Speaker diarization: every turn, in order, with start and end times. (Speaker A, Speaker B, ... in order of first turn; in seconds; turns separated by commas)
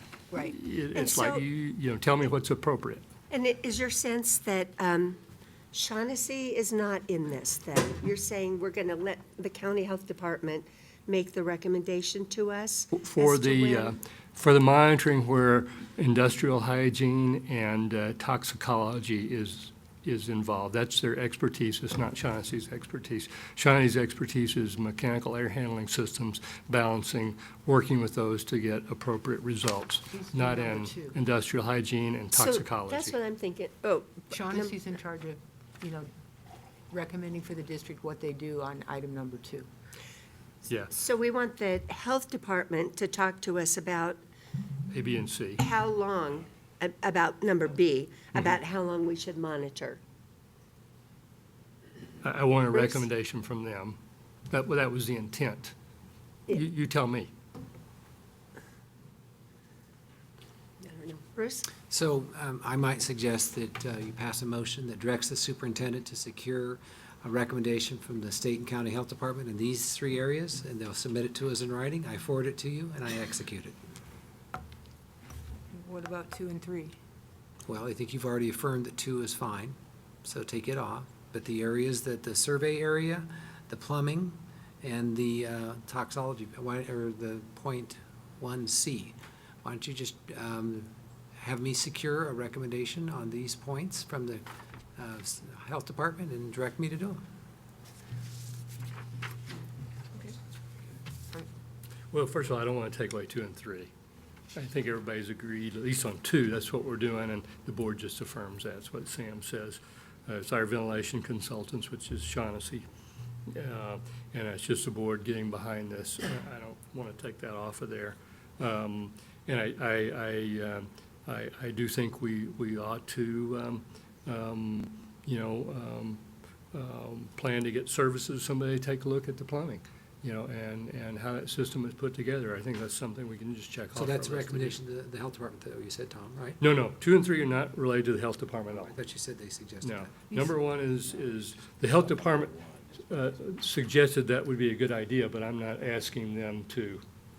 Speaker A: 0.3-0.6, Speaker B: 0.3-3.0, Speaker C: 0.9-1.4, Speaker C: 3.3-5.2, Speaker C: 5.7-13.9, Speaker B: 12.9-33.1, Speaker A: 30.1-31.2, Speaker C: 32.4-34.8, Speaker A: 34.3-36.1, Speaker A: 36.9-39.7, Speaker B: 40.7-40.9, Speaker C: 40.9-44.2, Speaker B: 44.9-45.6, Speaker C: 45.6-50.0, Speaker B: 52.2-54.0, Speaker B: 54.5-55.7, Speaker B: 56.5-57.3, Speaker C: 60.8-61.7, Speaker D: 61.9-73.8, Speaker A: 75.7-77.0, Speaker D: 77.7-94.5, Speaker D: 95.0-97.2, Speaker B: 102.1-103.9, Speaker B: 104.5-112.9, Speaker B: 113.5-134.8, Speaker D: 133.9-136.6, Speaker B: 136.6-139.0, Speaker D: 138.8-140.2, Speaker B: 139.8-147.0